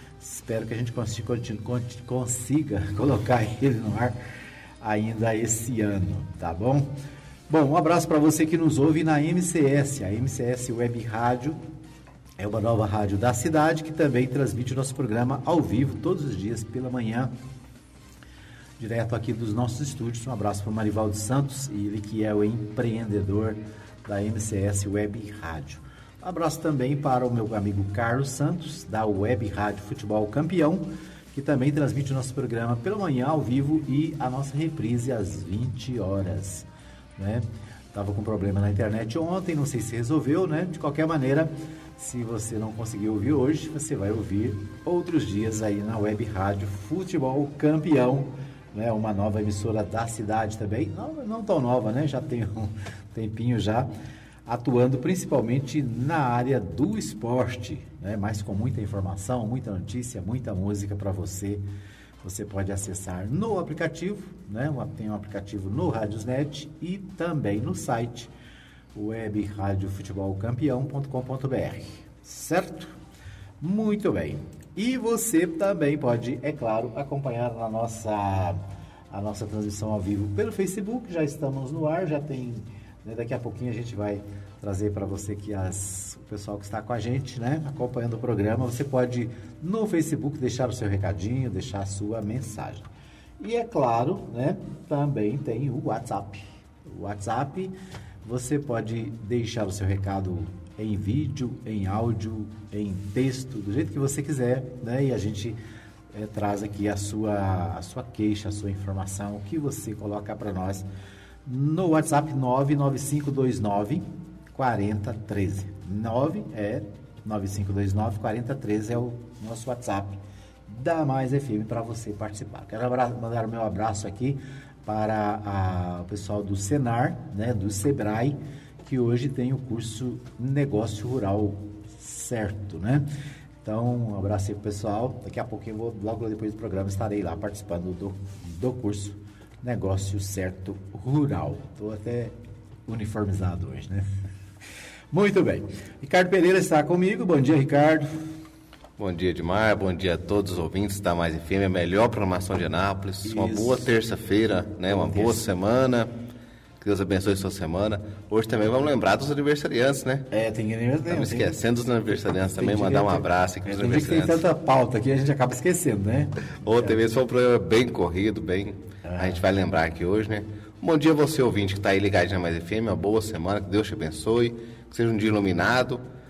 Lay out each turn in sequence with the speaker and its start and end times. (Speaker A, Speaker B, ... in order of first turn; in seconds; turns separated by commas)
Speaker A: 0.2-4.2, Speaker A: 4.8-6.9, Speaker A: 7.5-11.6, Speaker A: 12.4-17.3, Speaker A: 18.8-36.7, Speaker A: 37.2-53.9, Speaker A: 54.5-61.6, Speaker A: 62.2-68.3, Speaker A: 68.9-73.0, Speaker A: 73.6-78.6, Speaker A: 79.1-92.9, Speaker A: 93.4-105.6, Speaker A: 106.1-110.9, Speaker A: 111.5-133.1, Speaker A: 133.6-142.3, Speaker A: 142.9-144.1, Speaker A: 145.1-148.1, Speaker B: 149.0-156.1, Speaker A: 153.2-153.9, Speaker A: 154.9-155.5, Speaker B: 156.8-160.3, Speaker A: 160.3-161.6, Speaker B: 161.1-164.4, Speaker A: 162.6-167.0, Speaker B: 166.6-176.0, Speaker A: 169.0-169.4